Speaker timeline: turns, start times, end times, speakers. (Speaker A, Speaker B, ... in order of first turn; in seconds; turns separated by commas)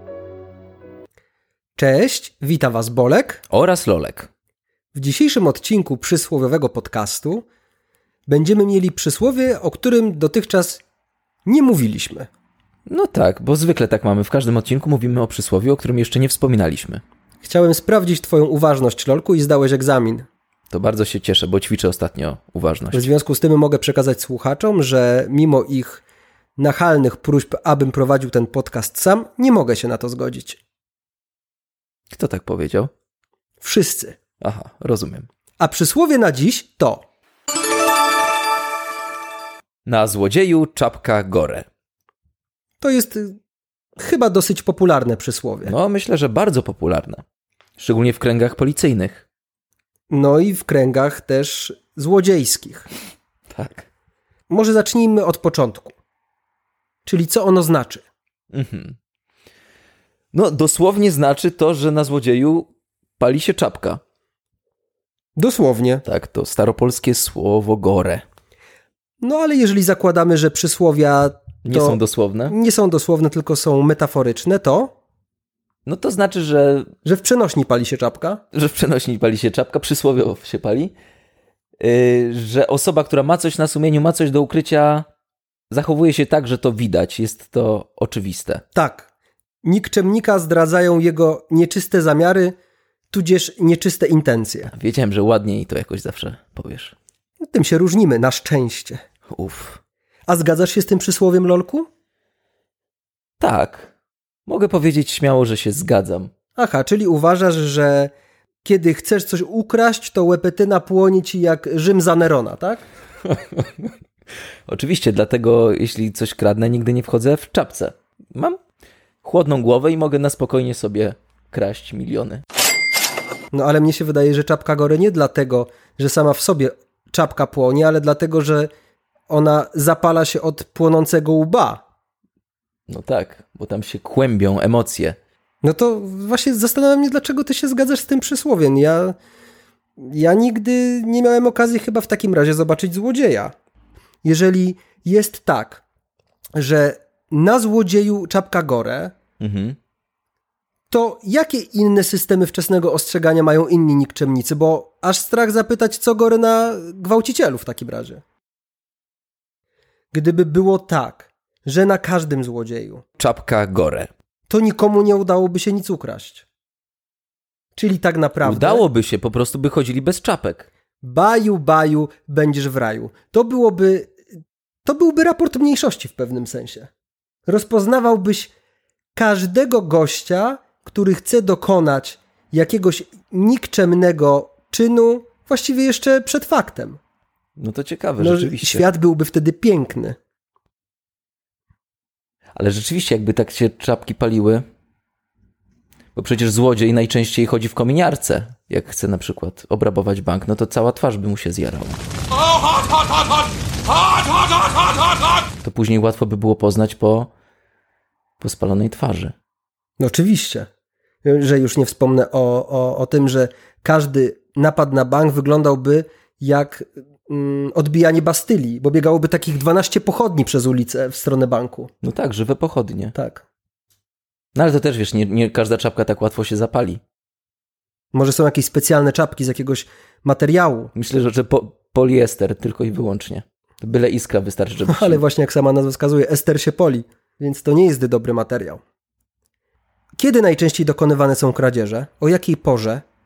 Speaker A: 1.8-3.4, Speaker B: 3.5-4.3, Speaker A: 4.9-7.5, Speaker A: 8.3-10.8, Speaker A: 11.4-12.3, Speaker B: 12.9-17.0, Speaker A: 17.4-20.2, Speaker B: 20.7-23.1, Speaker A: 22.9-26.0, Speaker A: 26.6-30.6, Speaker B: 32.1-32.9, Speaker A: 33.6-34.2, Speaker B: 34.4-35.3, Speaker A: 35.6-37.0, Speaker B: 39.9-41.7, Speaker A: 42.8-43.4, Speaker A: 44.0-45.7, Speaker B: 45.6-47.2, Speaker B: 47.8-49.3, Speaker A: 50.1-52.9, Speaker B: 53.5-53.9, Speaker A: 54.5-55.9, Speaker A: 57.0-58.0, Speaker B: 58.5-59.0, Speaker B: 60.3-64.0, Speaker A: 65.4-66.0, Speaker B: 66.0-68.2, Speaker A: 69.2-74.9, Speaker B: 71.6-72.5, Speaker B: 75.8-76.9, Speaker A: 77.0-78.4, Speaker B: 78.5-80.9, Speaker B: 81.8-85.1, Speaker B: 85.7-88.6, Speaker A: 88.7-89.1, Speaker A: 89.6-92.5, Speaker A: 93.1-94.7, Speaker B: 94.7-96.9, Speaker A: 97.4-99.0, Speaker B: 99.3-99.8, Speaker A: 100.3-101.8, Speaker B: 103.4-103.9, Speaker B: 104.5-106.3, Speaker A: 106.5-108.1, Speaker A: 108.6-112.8, Speaker B: 113.3-113.6, Speaker B: 114.7-118.6, Speaker B: 119.2-122.4, Speaker A: 123.5-128.7, Speaker A: 129.3-131.8, Speaker B: 132.9-135.2, Speaker A: 135.6-139.2, Speaker A: 140.0-143.5, Speaker A: 144.2-145.8, Speaker A: 146.6-149.1, Speaker B: 149.4-149.8, Speaker A: 150.9-158.2, Speaker A: 160.1-163.0, Speaker B: 163.2-164.1, Speaker A: 164.5-166.4, Speaker A: 167.8-168.8, Speaker B: 168.4-170.7, Speaker A: 171.0-174.1, Speaker A: 174.8-176.9, Speaker A: 177.5-178.5, Speaker A: 179.2-187.0, Speaker B: 187.6-188.9, Speaker A: 188.2-190.2, Speaker B: 192.6-194.6, Speaker B: 196.1-202.0, Speaker B: 205.6-207.3, Speaker B: 208.4-209.3, Speaker A: 210.0-210.7, Speaker A: 211.2-221.9, Speaker B: 222.0-223.1, Speaker A: 223.1-223.4, Speaker B: 224.5-227.0, Speaker A: 228.1-230.9, Speaker B: 230.9-235.2, Speaker A: 234.9-238.8, Speaker A: 240.2-243.0